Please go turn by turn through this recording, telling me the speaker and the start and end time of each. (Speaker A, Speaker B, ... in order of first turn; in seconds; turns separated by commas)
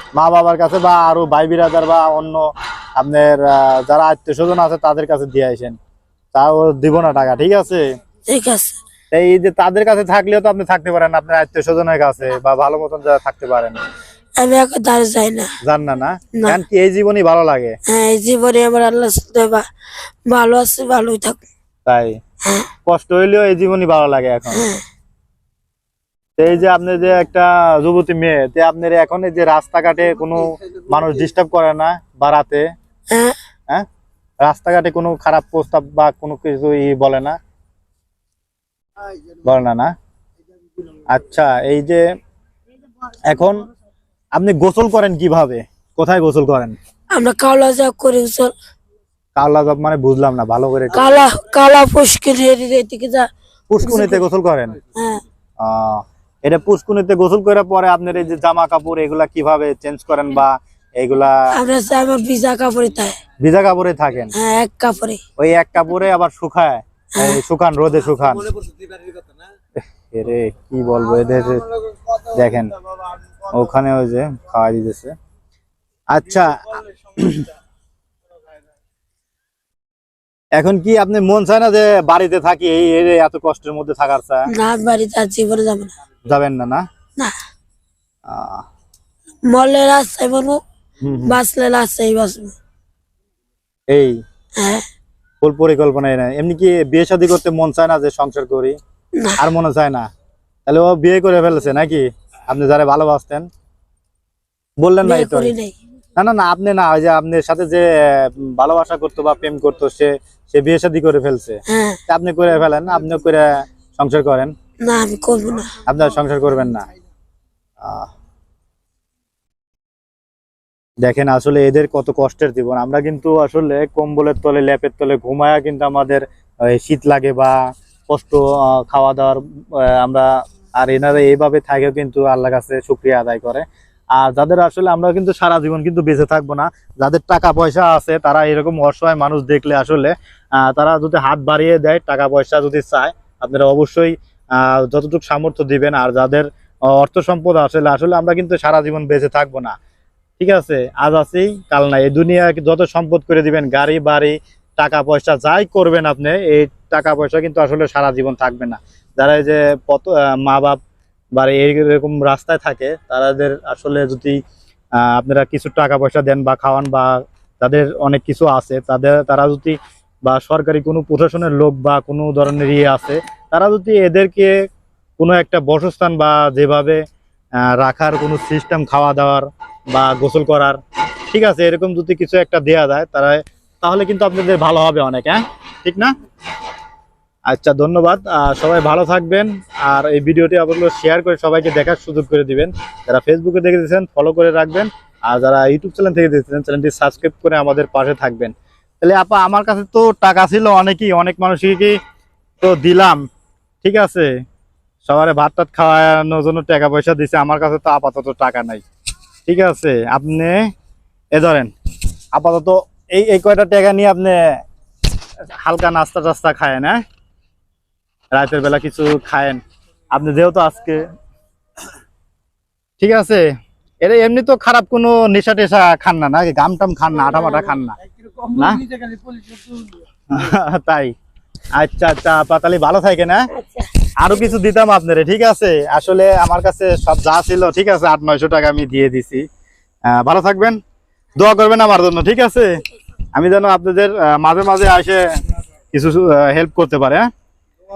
Speaker A: 0.1-5.8, Speaker A: 6.3-7.9, Speaker B: 8.3-8.8, Speaker A: 9.1-13.8, Speaker B: 14.4-15.6, Speaker A: 15.6-17.8, Speaker B: 17.9-19.7, Speaker B: 20.3-21.5, Speaker A: 21.9-22.2, Speaker A: 22.9-24.6, Speaker B: 24.5-24.8, Speaker A: 26.4-32.7, Speaker B: 33.1-33.4, Speaker A: 34.4-37.4, Speaker A: 39.4-39.9, Speaker A: 41.1-42.0, Speaker A: 43.3-43.7, Speaker A: 44.4-46.8, Speaker B: 47.1-48.5, Speaker A: 49.4-51.3, Speaker B: 50.9-53.3, Speaker A: 53.7-54.8, Speaker B: 53.8-54.2, Speaker B: 55.0-55.2, Speaker A: 55.6-61.5, Speaker B: 61.5-63.2, Speaker A: 63.4-64.3, Speaker B: 64.3-65.2, Speaker A: 65.4-68.6, Speaker A: 70.1-71.7, Speaker A: 72.2-72.7, Speaker A: 73.5-75.2, Speaker A: 76.1-77.5, Speaker A: 80.6-84.5, Speaker B: 84.5-85.9, Speaker A: 86.3-86.8, Speaker A: 88.3-88.7, Speaker B: 89.5-90.6, Speaker A: 91.0-91.4, Speaker B: 91.3-92.5, Speaker A: 93.9-94.2, Speaker B: 94.6-94.8, Speaker A: 95.4-98.8, Speaker A: 99.4-100.1, Speaker A: 100.7-103.5, Speaker A: 104.8-105.5, Speaker B: 105.0-105.8, Speaker A: 106.2-114.5, Speaker B: 111.7-112.0, Speaker B: 114.8-115.8, Speaker A: 115.9-116.9, Speaker A: 117.8-118.1, Speaker A: 121.0-127.5, Speaker A: 128.1-133.7, Speaker A: 134.2-149.8, Speaker A: 150.4-160.8, Speaker A: 161.4-164.4, Speaker A: 165.0-174.5, Speaker A: 175.2-177.0, Speaker A: 177.7-180.8, Speaker A: 181.3-186.1, Speaker A: 187.5-202.0, Speaker A: 202.6-203.2, Speaker A: 203.8-204.3, Speaker A: 205.1-208.8, Speaker A: 209.5-210.6, Speaker A: 211.3-211.7, Speaker A: 212.3-214.4, Speaker A: 215.6-217.0, Speaker A: 218.3-219.6, Speaker A: 220.1-221.1, Speaker A: 223.0-223.4, Speaker A: 224.0-228.0, Speaker B: 227.3-227.8, Speaker A: 228.5-228.9, Speaker A: 230.3-231.1, Speaker A: 231.8-233.5, Speaker B: 233.5-233.9, Speaker A: 234.2-239.4, Speaker A: 240.1-240.8, Speaker A: 241.4-242.8, Speaker A: 243.3-245.2, Speaker A: 245.9-247.3